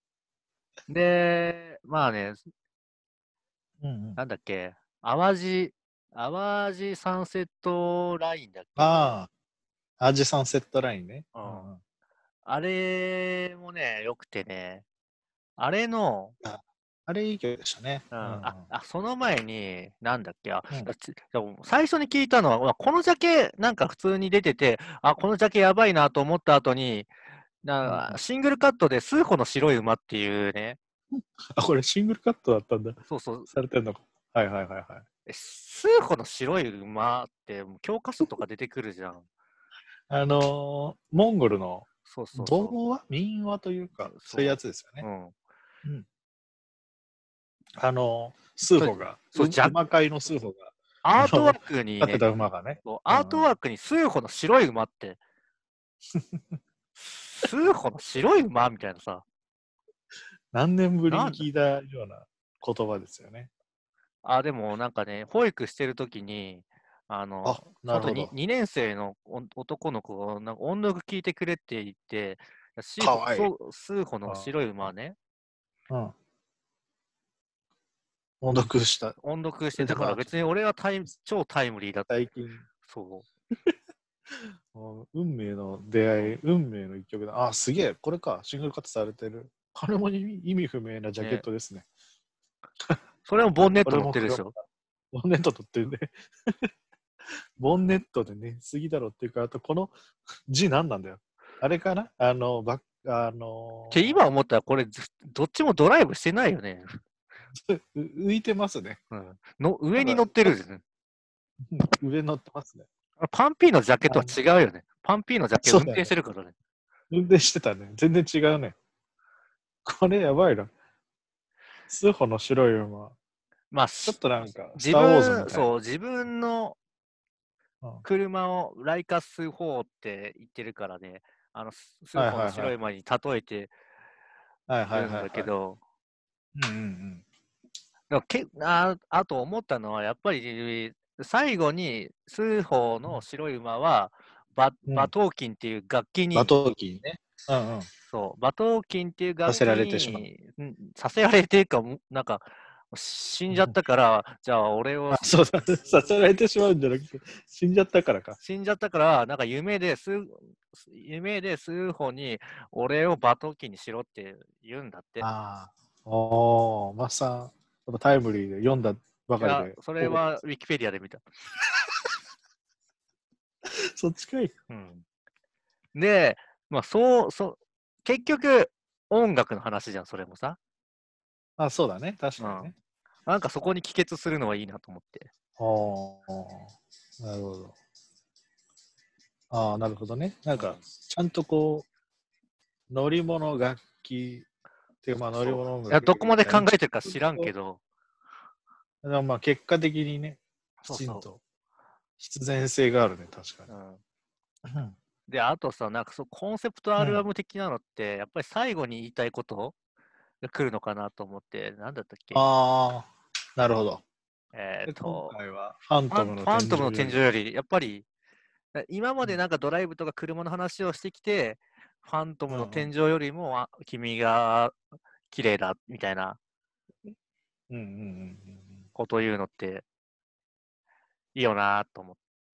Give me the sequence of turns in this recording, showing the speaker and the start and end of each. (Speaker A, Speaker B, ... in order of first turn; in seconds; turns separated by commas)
Speaker A: 0.9-2.5, Speaker B: 3.8-4.2, Speaker A: 4.2-9.2, Speaker B: 8.8-9.3, Speaker B: 10.0-11.8, Speaker A: 11.3-11.7, Speaker A: 12.4-14.8, Speaker A: 15.6-16.3, Speaker B: 16.4-18.7, Speaker A: 18.1-27.1, Speaker A: 27.6-30.8, Speaker B: 27.8-28.2, Speaker B: 31.6-33.0, Speaker A: 33.1-33.5, Speaker B: 33.5-35.0, Speaker A: 35.2-39.3, Speaker B: 40.1-45.0, Speaker A: 42.0-42.8, Speaker A: 44.1-45.3, Speaker B: 47.8-53.5, Speaker A: 48.8-49.8, Speaker A: 51.0-52.2, Speaker A: 52.8-55.2, Speaker B: 56.1-56.4, Speaker A: 57.0-59.2, Speaker B: 60.5-63.5, Speaker A: 61.1-61.5, Speaker A: 64.2-75.2, Speaker B: 67.4-68.3, Speaker B: 73.0-73.5, Speaker B: 74.3-74.5, Speaker B: 75.9-76.1, Speaker B: 78.4-79.2, Speaker A: 79.2-82.3, Speaker B: 79.8-80.3, Speaker B: 82.1-82.7, Speaker A: 82.8-83.3, Speaker B: 84.3-91.8, Speaker A: 91.2-91.4, Speaker A: 93.2-94.5, Speaker B: 93.8-96.7, Speaker B: 97.6-99.9, Speaker B: 100.5-104.2, Speaker A: 103.9-107.0, Speaker B: 107.5-109.0, Speaker A: 109.1-110.8, Speaker B: 110.0-110.3, Speaker B: 111.7-112.9, Speaker A: 113.2-116.5, Speaker B: 114.1-114.4, Speaker B: 115.6-116.1, Speaker B: 117.1-118.8, Speaker B: 119.8-120.7, Speaker B: 121.9-123.1, Speaker A: 123.7-124.2, Speaker B: 124.0-125.7, Speaker A: 124.7-126.8, Speaker A: 128.0-133.7, Speaker B: 132.1-132.7, Speaker B: 134.7-135.5, Speaker A: 134.9-135.8, Speaker B: 136.6-137.2, Speaker A: 138.1-146.5, Speaker B: 146.3-147.9, Speaker A: 148.1-155.3, Speaker B: 149.4-150.3, Speaker B: 153.5-153.7, Speaker B: 155.1-158.4, Speaker A: 158.4-165.2, Speaker B: 165.2-170.2, Speaker A: 169.4-171.2, Speaker B: 173.7-174.5, Speaker A: 174.7-175.0, Speaker A: 175.9-180.6, Speaker B: 181.6-182.7, Speaker A: 182.4-182.7, Speaker A: 183.2-185.3, Speaker B: 185.6-187.7, Speaker B: 189.5-191.8, Speaker A: 190.5-190.8, Speaker B: 192.9-194.5, Speaker B: 195.0-197.5, Speaker A: 195.4-197.8, Speaker B: 199.0-201.4, Speaker A: 200.8-201.2, Speaker B: 202.2-203.7, Speaker A: 203.7-204.0, Speaker B: 204.7-204.9, Speaker A: 205.3-209.8, Speaker B: 207.0-207.2, Speaker A: 210.4-212.4, Speaker B: 212.3-214.0, Speaker A: 214.5-215.3, Speaker B: 214.9-217.2, Speaker A: 216.1-218.1, Speaker A: 218.7-224.8, Speaker B: 222.5-222.9, Speaker A: 225.3-226.4, Speaker B: 227.7-228.8, Speaker A: 228.9-229.8, Speaker A: 231.3-232.2